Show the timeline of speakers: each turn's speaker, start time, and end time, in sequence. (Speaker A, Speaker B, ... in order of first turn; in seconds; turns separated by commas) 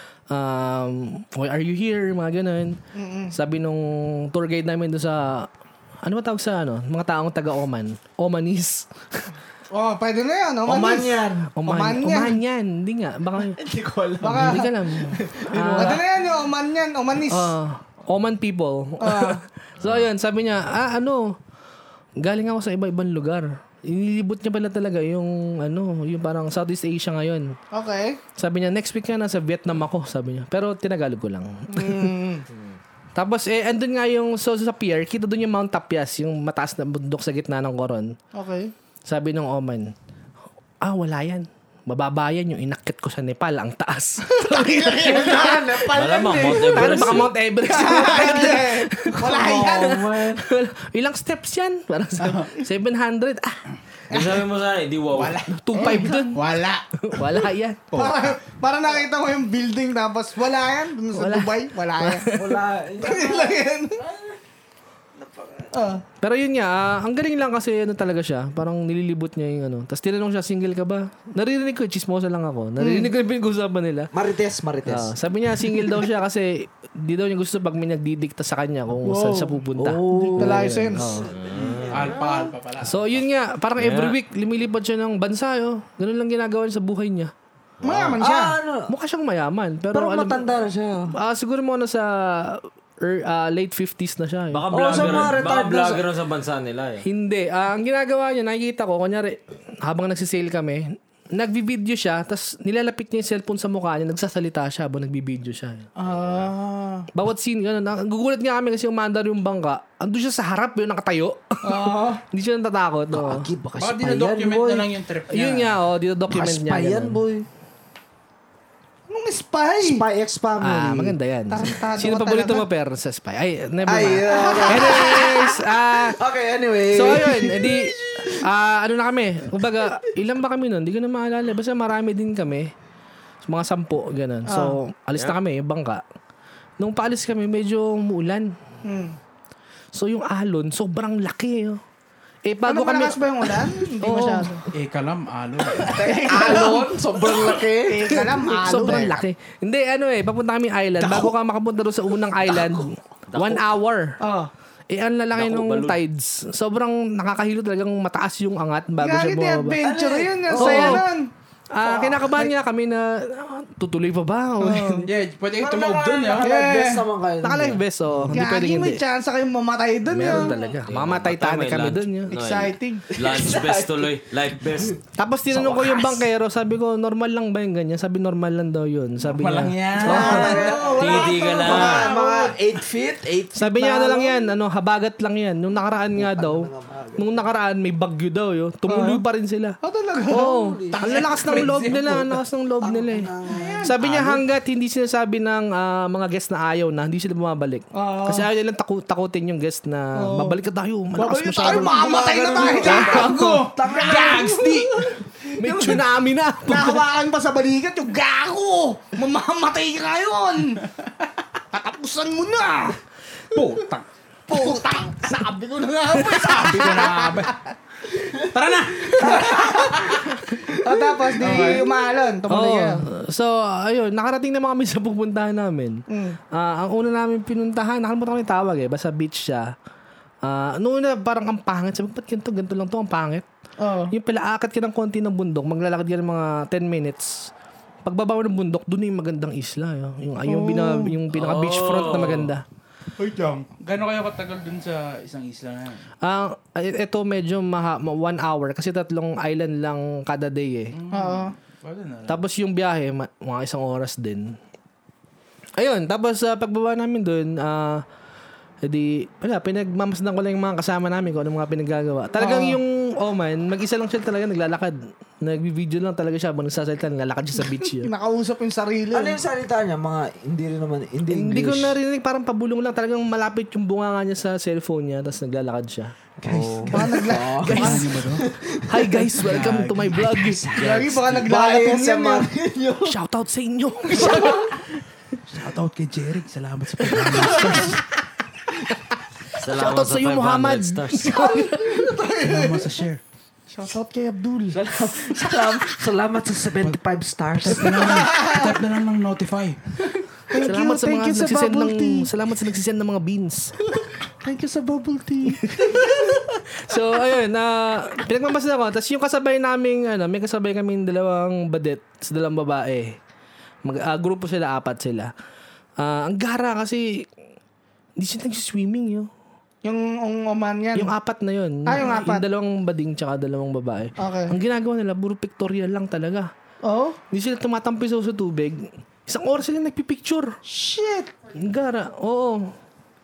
Speaker A: 0.3-2.8, Speaker B: 2.9-3.3, Speaker A: 3.3-5.5, Speaker A: 6.0-9.3, Speaker B: 9.7-12.4, Speaker C: 10.7-11.5, Speaker A: 11.5-13.6, Speaker C: 13.6-16.1, Speaker B: 14.2-14.7, Speaker A: 14.3-16.0, Speaker B: 15.6-17.6, Speaker A: 17.3-21.4, Speaker B: 19.0-19.4, Speaker D: 19.8-20.1, Speaker A: 22.2-27.6, Speaker B: 27.7-28.2, Speaker A: 28.4-32.1, Speaker B: 31.7-32.5, Speaker A: 33.2-38.2, Speaker B: 38.3-38.7, Speaker A: 39.1-39.9, Speaker A: 40.8-45.8, Speaker B: 44.5-45.6, Speaker C: 44.7-46.6, Speaker D: 45.9-47.3, Speaker B: 46.3-50.0, Speaker A: 46.4-53.6, Speaker C: 49.2-50.5, Speaker D: 54.1-55.5, Speaker B: 54.1-54.4, Speaker E: 55.1-58.3, Speaker A: 55.5-56.4, Speaker A: 57.0-57.9, Speaker B: 57.9-62.3, Speaker A: 61.1-62.6, Speaker C: 62.3-64.4, Speaker B: 63.0-64.0, Speaker B: 65.7-66.0, Speaker A: 66.2-74.1, Speaker B: 72.8-73.1, Speaker C: 74.1-75.1, Speaker A: 74.9-81.3, Speaker B: 79.0-79.6, Speaker C: 79.8-82.5, Speaker B: 80.1-81.3, Speaker D: 81.3-82.2, Speaker E: 81.9-83.1, Speaker A: 82.8-87.3, Speaker D: 83.8-84.2, Speaker D: 87.8-88.2, Speaker B: 87.8-88.6, Speaker C: 88.2-88.9, Speaker A: 88.9-90.5, Speaker C: 89.9-91.1, Speaker A: 91.1-95.3, Speaker D: 94.5-97.0, Speaker C: 94.7-96.0, Speaker A: 97.0-105.9, Speaker B: 106.0-107.1, Speaker A: 107.1-113.5, Speaker B: 111.7-112.2, Speaker C: 113.1-114.9, Speaker E: 113.8-115.8, Speaker A: 115.3-117.2, Speaker C: 116.3-117.5, Speaker B: 119.1-120.0, Speaker C: 119.8-121.2, Speaker A: 120.6-126.2, Speaker B: 121.5-122.6, Speaker C: 123.8-128.4, Speaker B: 124.3-125.3, Speaker A: 126.9-132.7, Speaker A: 133.4-136.0, Speaker B: 134.5-134.8, Speaker A: 136.8-138.6, Speaker B: 138.8-139.2, Speaker A: 139.9-141.8, Speaker A: 142.5-144.6, Speaker B: 142.7-144.7, Speaker E: 144.7-146.0, Speaker C: 145.9-148.9, Speaker B: 145.9-146.9, Speaker B: 147.8-149.2, Speaker A: 148.5-154.2, Speaker D: 153.3-153.7, Speaker B: 154.2-154.5, Speaker A: 154.9-159.8, Speaker D: 155.4-156.0, Speaker B: 159.0-161.3, Speaker C: 159.8-161.1, Speaker A: 160.6-161.1, Speaker A: 161.7-165.0, Speaker B: 161.8-162.5, Speaker B: 164.6-165.1, Speaker E: 165.1-166.5, Speaker C: 165.6-167.8, Speaker B: 166.4-167.0, Speaker A: 167.4-169.0, Speaker B: 168.3-170.5, Speaker A: 170.1-172.3, Speaker D: 170.9-175.0, Speaker B: 172.3-173.1, Speaker C: 173.1-175.0, Speaker A: 175.2-180.6, Speaker C: 175.9-176.1, Speaker E: 179.2-180.5, Speaker C: 179.8-184.2, Speaker B: 180.0-182.6, Speaker D: 180.9-182.1, Speaker A: 183.6-189.8, Speaker B: 184.0-184.5, Speaker C: 186.2-187.4, Speaker B: 188.9-189.2, Speaker B: 189.8-190.5, Speaker C: 190.3-191.4, Speaker A: 190.3-193.3, Speaker E: 190.9-192.4, Speaker C: 192.8-193.9, Speaker B: 193.5-193.9, Speaker A: 193.8-204.8, Speaker E: 194.1-194.4, Speaker B: 197.9-198.5, Speaker B: 200.2-200.6, Speaker B: 201.2-203.3, Speaker C: 201.6-204.8, Speaker E: 203.1-204.8, Speaker B: 203.9-206.1, Speaker A: 205.6-207.0, Speaker B: 206.7-210.8, Speaker B: 211.7-213.0, Speaker E: 213.5-214.1, Speaker B: 214.5-217.5, Speaker E: 216.3-217.5, Speaker E: 218.5-220.2, Speaker C: 219.0-221.9, Speaker B: 220.7-223.0, Speaker E: 221.4-221.9, Speaker A: 222.5-229.7, Speaker B: 226.1-226.4, Speaker A: 230.4-233.4, Speaker B: 233.8-234.1, Speaker A: 234.1-237.5, Speaker A: 238.1-242.6, Speaker B: 240.4-241.2, Speaker D: 241.3-242.5, Speaker C: 243.2-243.5, Speaker E: 243.7-246.1, Speaker A: 246.2-250.9, Speaker E: 250.9-252.4, Speaker B: 251.1-251.5, Speaker A: 252.3-254.6, Speaker A: 255.8-258.0, Speaker A: 258.8-268.1, Speaker B: 262.4-262.8, Speaker B: 268.0-269.4, Speaker C: 269.1-272.0, Speaker A: 271.3-276.2, Speaker C: 276.4-279.4, Speaker D: 276.5-276.8, Speaker B: 276.9-278.1, Speaker A: 276.9-278.2, Speaker E: 277.7-278.5, Speaker A: 278.9-280.7, Speaker E: 279.3-281.1, Speaker B: 280.7-282.5, Speaker C: 280.8-283.1, Speaker A: 283.1-284.6, Speaker B: 284.2-284.6, Speaker E: 285.5-288.0, Speaker A: 287.6-287.9, Speaker A: 289.6-292.1, Speaker D: 289.6-291.4, Speaker B: 291.4-292.9, Speaker E: 292.4-293.2, Speaker B: 293.7-294.8, Speaker C: 294.7-298.3, Speaker E: 297.6-299.8, Speaker B: 297.8-298.8, Speaker B: 300.5-302.3, Speaker A: 300.6-303.8, Speaker B: 304.4-306.4, Speaker A: 305.5-313.2, Speaker A: 313.9-315.3, Speaker A: 316.0-317.3, Speaker A: 318.2-319.3, Speaker B: 319.8-321.1, Speaker A: 320.9-326.5, Speaker B: 321.9-322.4, Speaker B: 324.2-324.6, Speaker B: 326.8-327.2, Speaker A: 327.3-330.6, Speaker B: 330.7-331.3, Speaker A: 331.6-332.7